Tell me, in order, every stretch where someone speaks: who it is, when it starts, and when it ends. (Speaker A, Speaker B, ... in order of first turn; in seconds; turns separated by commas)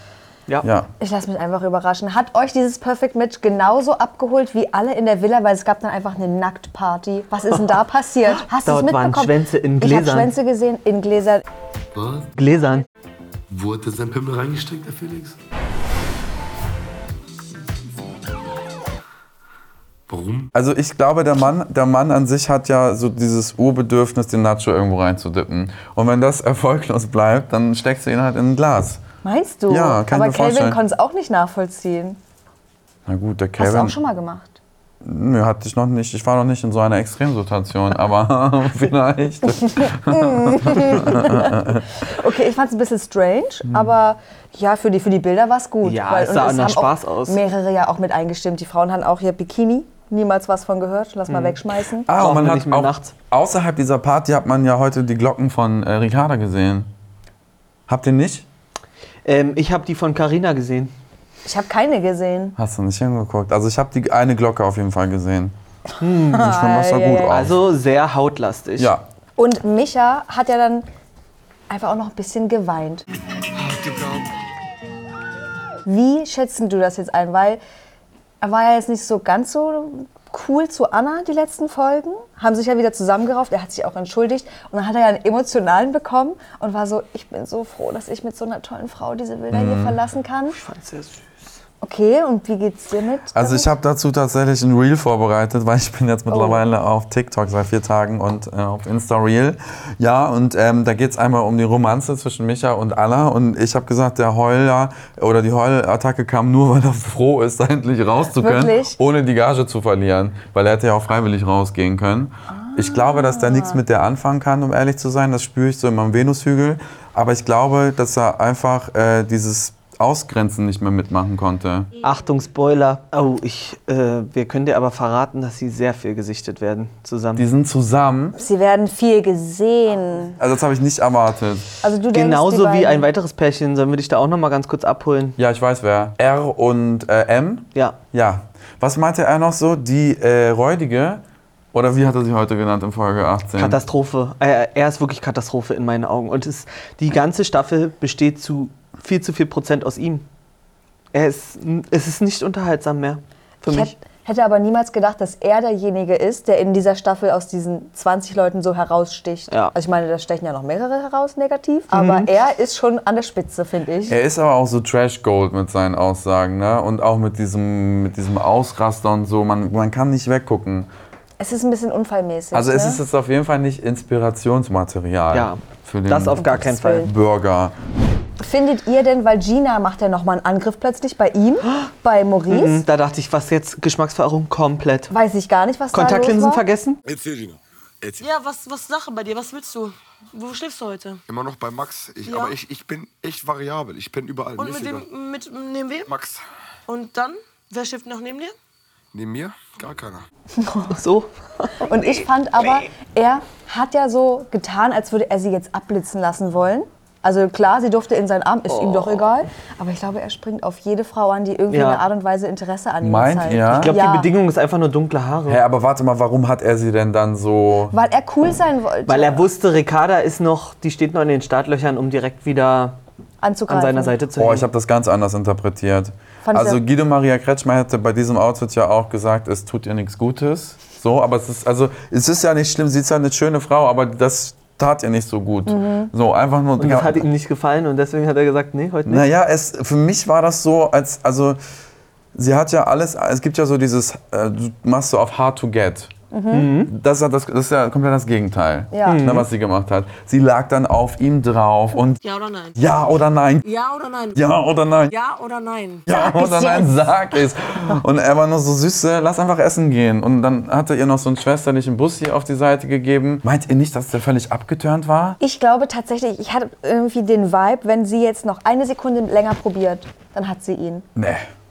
Speaker A: 0.6-0.9, Speaker B: 1.0-11.4, Speaker C: 8.6-10.3, Speaker D: 11.9-12.3, Speaker C: 12.4-12.9, Speaker D: 13.5-15.4, Speaker D: 20.1-20.5, Speaker A: 20.5-29.0, Speaker B: 29.2-32.2, Speaker A: 29.7-30.8, Speaker A: 33.1-34.0, Speaker B: 33.6-34.6, Speaker A: 35.0-41.9, Speaker B: 39.6-52.1, Speaker A: 43.7-43.9, Speaker C: 45.8-47.4, Speaker C: 51.3-51.6, Speaker A: 52.0-56.9, Speaker C: 52.2-53.1, Speaker A: 57.9-58.5, Speaker C: 59.3-60.9, Speaker B: 61.5-62.6, Speaker A: 62.6-65.5, Speaker C: 66.0-66.5, Speaker B: 66.3-67.3, Speaker A: 66.3-67.6, Speaker C: 67.3-68.9, Speaker A: 68.8-69.1, Speaker B: 69.4-70.9, Speaker B: 71.7-73.0, Speaker E: 73.6-74.2, Speaker B: 75.8-77.6, Speaker B: 78.4-90.6, Speaker A: 89.5-90.0, Speaker C: 90.5-91.6, Speaker B: 91.8-93.7, Speaker A: 93.3-121.9, Speaker B: 96.3-96.6, Speaker B: 108.3-109.0, Speaker B: 112.5-113.8, Speaker C: 122.0-127.5, Speaker A: 127.4-128.4, Speaker B: 128.4-130.4, Speaker A: 130.4-131.7, Speaker B: 131.8-133.0, Speaker C: 132.1-135.4, Speaker A: 135.4-141.2, Speaker A: 141.7-143.8, Speaker C: 143.6-150.2, Speaker C: 151.1-153.9, Speaker B: 153.7-164.2, Speaker C: 161.9-162.3, Speaker A: 164.1-170.9, Speaker B: 171.4-173.0, Speaker A: 172.5-177.8, Speaker C: 175.3-177.1, Speaker B: 176.5-177.1, Speaker B: 178.4-182.8, Speaker C: 181.6-181.9, Speaker C: 182.5-185.1, Speaker B: 185.1-186.6, Speaker C: 185.9-187.0, Speaker E: 187.1-188.2, Speaker F: 188.2-191.2, Speaker E: 191.3-195.1, Speaker F: 192.3-192.6, Speaker F: 194.6-196.1, Speaker E: 196.1-196.4, Speaker F: 196.9-198.6, Speaker E: 199.1-200.2, Speaker B: 200.6-201.0, Speaker C: 200.9-202.2, Speaker B: 201.8-214.3, Speaker C: 208.7-209.3, Speaker C: 211.7-212.0, Speaker A: 213.0-214.0, Speaker C: 213.7-215.6, Speaker A: 215.5-218.0, Speaker B: 217.9-219.4, Speaker C: 219.1-223.0, Speaker B: 223.4-224.1, Speaker C: 223.7-224.7, Speaker A: 224.4-237.3, Speaker B: 226.4-226.8, Speaker B: 235.7-236.1, Speaker C: 236.8-239.3, Speaker A: 239.1-241.6, Speaker A: 242.3-246.1, Speaker B: 246.3-246.7, Speaker C: 246.5-246.9, Speaker A: 246.9-252.2, Speaker B: 248.9-249.3, Speaker C: 249.1-249.5, Speaker F: 252.2-252.8, Speaker A: 252.8-253.7, Speaker F: 253.6-254.4, Speaker A: 254.3-255.2, Speaker F: 255.1-256.1, Speaker A: 256.1-265.4, Speaker B: 256.1-256.9, Speaker B: 265.4-271.1, Speaker A: 271.1-271.5